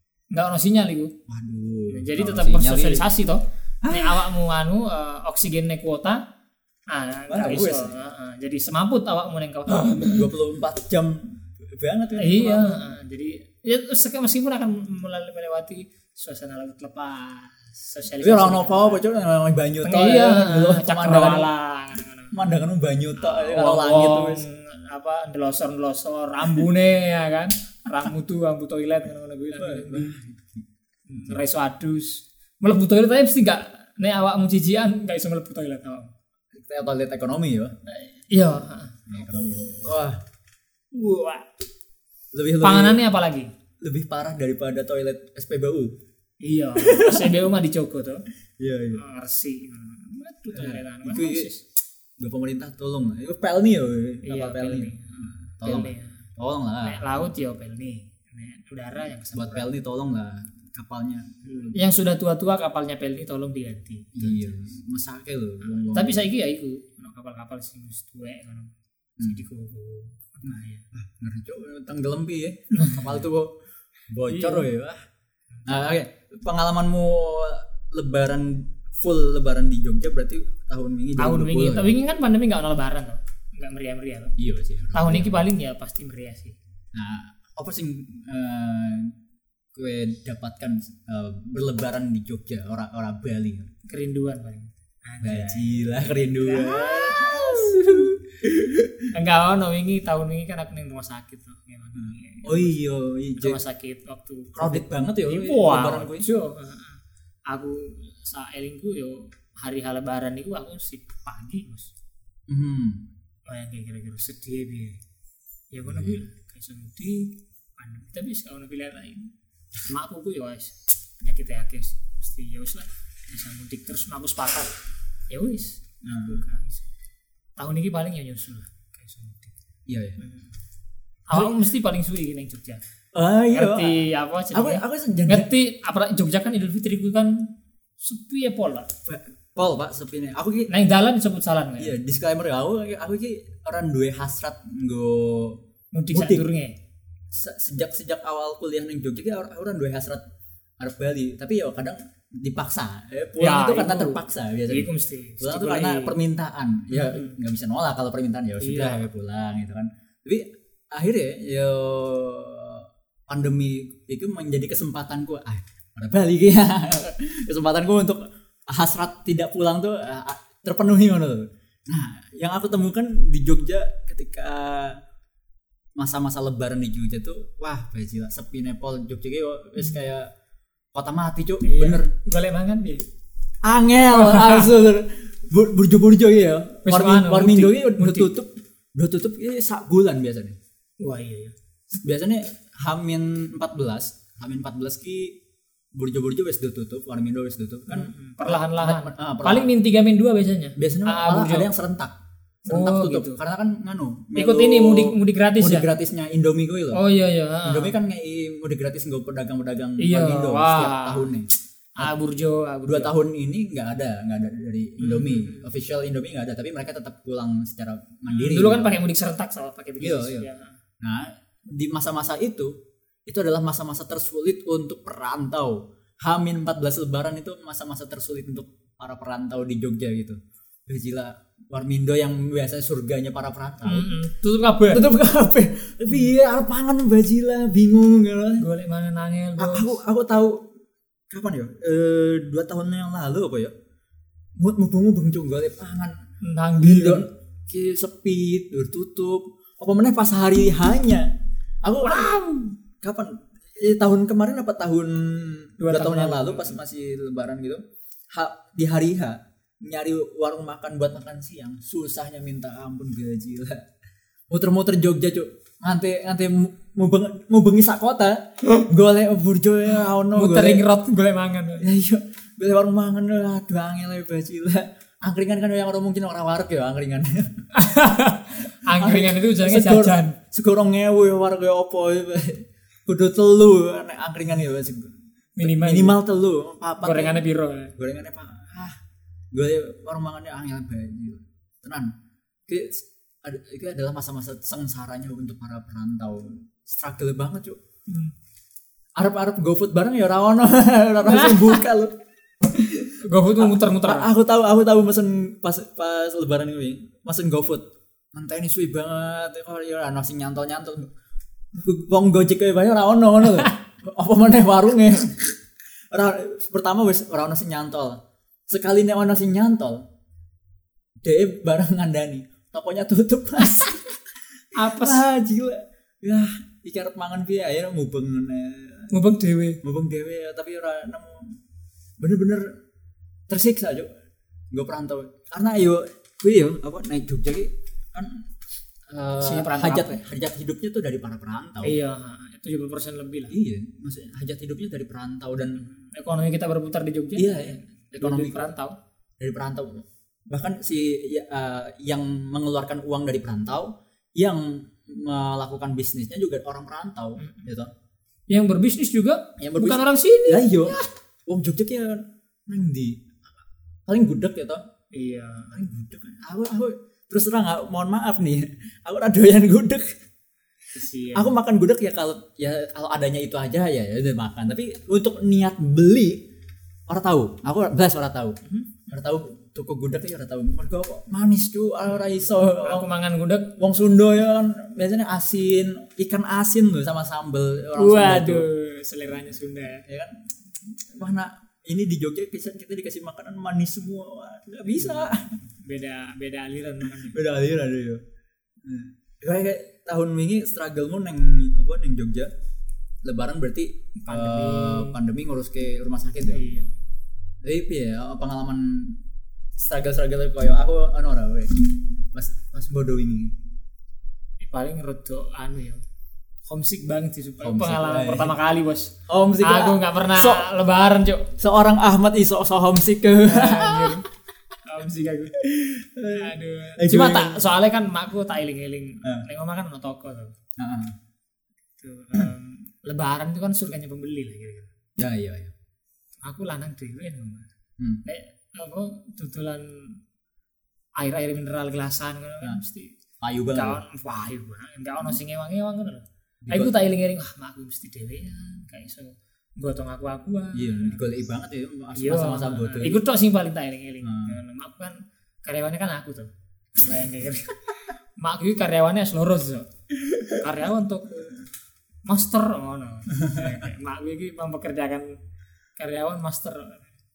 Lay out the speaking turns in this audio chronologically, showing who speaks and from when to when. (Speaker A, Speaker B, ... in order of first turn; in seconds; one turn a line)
Speaker A: 0.3-1.1
Speaker B: 1.3-3.0
Speaker A: 1.9-6.2
Speaker B: 3.8-4.3
Speaker A: 6.9-10.3
Speaker B: 7.3-7.9
Speaker B: 9.7-12.8
Speaker A: 12.2-19.0
Speaker B: 18.2-21.5
Speaker A: 19.8-22.5
Speaker B: 22.3-24.4
Speaker A: 23.2-30.1
Speaker B: 29.5-30.6
Speaker A: 31.1-36.1
Speaker B: 36.5-37.7
Speaker A: 37.9-39.6
Speaker B: 39.1-40.2
Speaker A: 40.9-41.5
Speaker B: 42.3-43.0
Speaker A: 42.6-43.5
Speaker B: 43.8-45.9
Speaker A: 46.4-48.2
Speaker B: 46.8-47.4
Speaker B: 48.6-49.0
Speaker A: 48.9-51.6
Speaker B: 50.5-51.5
Speaker B: 52.2-57.1
Speaker A: 54.2-56.2
Speaker A: 56.8-59.7
Speaker B: 59.3-61.8
Speaker A: 61.7-64.6
Speaker B: 64.1-66.2
Speaker A: 65.7-70.8
Speaker B: 70.5-73.5
Speaker A: 72.7-73.2
Speaker B: 74.1-75.0
Speaker A: 74.3-74.7
Speaker A: 75.5-75.9
Speaker B: 75.7-81.9
Speaker A: 81.2-84.3
Speaker B: 84.4-85.4
Speaker A: 84.9-86.5
Speaker B: 86.9-89.1
Speaker B: 89.7-93.7
Speaker A: 93.9-98.0
Speaker B: 95.2-99.1
Speaker A: 99.1-102.8
Speaker B: 101.9-103.6
Speaker A: 103.4-111.9
Speaker B: 104.5-106.3
Speaker B: 112.5-113.0
Speaker A: 113.5-115.0
Speaker A: 115.7-119.3
Speaker B: 115.8-116.2
Speaker A: 119.8-124.7
Speaker A: 125.3-126.8
Speaker B: 126.0-126.4
Speaker A: 127.6-129.5
Speaker B: 129.9-130.2
Speaker A: 130.2-130.5
Speaker A: 131.3-132.8
Speaker B: 131.3-131.6
Speaker B: 133.1-134.0
Speaker A: 133.5-137.5
Speaker B: 134.5-135.5
Speaker A: 138.0-138.9
Speaker B: 139.1-140.7
Speaker A: 140.7-141.9
Speaker B: 141.8-145.6
Speaker A: 145.9-146.7
Speaker B: 146.1-146.4
Speaker B: 147.3-150.2
Speaker B: 150.8-175.0
Speaker A: 153.4-156.1
Speaker A: 156.9-157.4
Speaker A: 158.6-159.0
Speaker B: 176.0-180.3
Speaker B: 180.9-182.1
Speaker A: 181.6-183.0
Speaker B: 183.6-190.6
Speaker A: 184.1-184.7
Speaker A: 186.8-188.3
Speaker A: 191.0-191.5
Speaker B: 191.9-195.4
Speaker B: 195.9-199.7
Speaker A: 197.9-201.7
Speaker B: 200.8-207.0
Speaker A: 202.7-203.4
Speaker A: 204.3-205.9
Speaker A: 206.9-207.9
Speaker B: 207.6-211.5
Speaker A: 210.0-211.3
Speaker A: 212.0-213.1
Speaker B: 212.8-218.9
Speaker A: 215.0-215.7
Speaker A: 218.3-220.7
Speaker B: 220.0-220.5
Speaker B: 221.0-222.7
Speaker B: 223.3-234.1
Speaker A: 233.8-235.1
Speaker B: 234.9-238.7
Speaker A: 238.6-240.0
Speaker B: 239.6-240.7
Speaker B: 241.3-243.7
Speaker B: 244.6-246.2
Speaker A: 246.4-247.2
Speaker B: 246.8-251.3
Speaker B: 251.8-252.4
Speaker A: 252.0-252.7
Speaker B: 253.0-263.8
Speaker A: 255.8-256.8
Speaker B: 264.5-270.8
Speaker A: 270.3-271.9
Speaker B: 271.8-277.5
Speaker A: 277.7-280.4
Speaker B: 278.9-287.4
Speaker A: 285.6-286.2
Speaker A: 287.0-287.9
Speaker B: 288.0-289.0
Speaker B: 289.5-292.1
Speaker B: 292.7-297.8
Speaker A: 298.1-298.3
Speaker B: 299.2-311.1
Speaker A: 301.2-301.8
Speaker A: 303.2-304.3
Speaker B: 311.7-315.5
Speaker B: 316.1-320.0
Speaker B: 321.2-324.2
Speaker B: 324.7-329.1
Speaker A: 324.7-325.2
Speaker A: 329.1-329.8
Speaker B: 329.8-331.6
Speaker B: 332.2-332.7
Speaker B: 333.5-334.1
Speaker B: 334.7-338.5
Speaker B: 339.1-342.0
Speaker A: 339.4-340.2
Speaker A: 341.8-343.5
Speaker B: 343.5-345.8
Speaker A: 345.8-348.9
Speaker B: 347.4-348.7
Speaker B: 349.4-357.9
Speaker A: 357.4-357.7
Speaker A: 358.5-361.1
Speaker B: 359.6-364.8
Speaker A: 365.1-365.8
Speaker B: 365.7-370.1
Speaker A: 370.9-371.6
Speaker B: 371.3-376.4
Speaker B: 377.1-378.6
Speaker A: 378.6-379.1
Speaker B: 379.1-383.1
Speaker A: 382.7-383.7
Speaker B: 383.8-388.7
Speaker A: 388.0-390.0
Speaker B: 390.1-395.6
Speaker A: 394.9-397.4
Speaker B: 397.1-398.2
Speaker B: 398.8-402.5
Speaker B: 403.2-406.7
Speaker A: 404.2-405.1
Speaker A: 406.5-406.9
Speaker B: 407.6-409.2
Speaker B: 409.8-411.7
Speaker B: 412.3-413.5
Speaker A: 414.6-416.0
Speaker A: 416.6-421.5
Speaker B: 417.6-418.6
Speaker B: 419.3-420.6
Speaker B: 421.6-424.2
Speaker A: 423.5-425.6
Speaker B: 425.6-427.6
Speaker A: 426.3-430.5
Speaker B: 430.8-431.1
Speaker A: 432.0-434.9
Speaker B: 435.2-435.7
Speaker A: 436.4-437.7
Speaker A: 438.2-440.2
Speaker A: 441.2-443.1
Speaker B: 443.4-444.0
Speaker A: 443.7-451.2
Speaker B: 446.6-446.9
Speaker B: 450.7-453.2
Speaker A: 452.1-459.9
Speaker B: 454.2-454.6
Speaker B: 460.2-460.6
Speaker A: 460.5-461.6
Speaker A: 462.2-465.4
Speaker B: 463.3-463.9
Speaker A: 466.0-467.1